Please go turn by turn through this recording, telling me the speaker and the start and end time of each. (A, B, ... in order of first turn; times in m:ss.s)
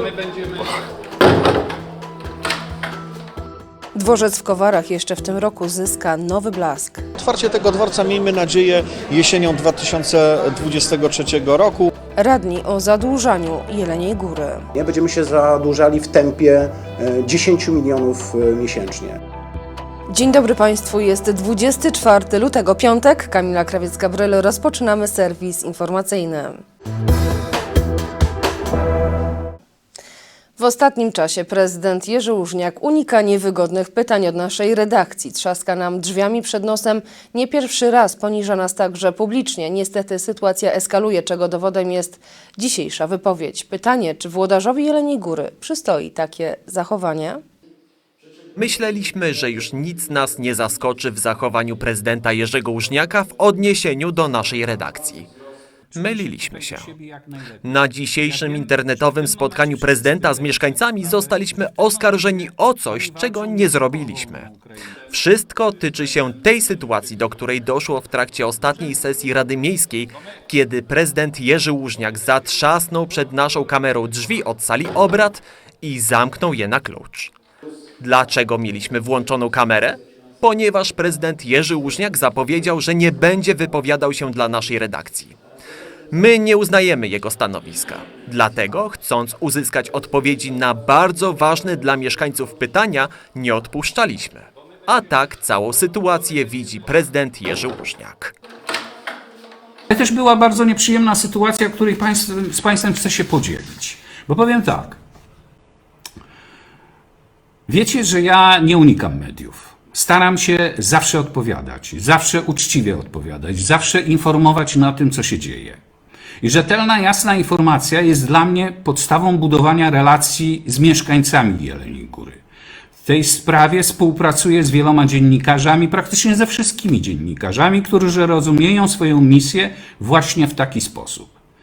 0:04.0-0:07.0 A
0:07.2-0:11.9 B
0:12.2-0:14.7 A
0:14.7-0:19.2 C
0:20.1-0:26.6 A
0:30.6-0:47.4 A
0:48.6-0:55.3 D
0:55.9-0:57.7 E
0:56.0-0:56.9 D
0:57.6-1:04.5 D
0:58.2-1:02.3 E
1:02.8-1:04.8 E
1:05.1-1:17.3 D
1:18.0-1:25.4 D
1:26.1-1:38.4 D
1:39.9-1:45.0 E
1:47.7-1:55.8 E
1:56.4-2:02.4 E
2:03.0-2:11.3 E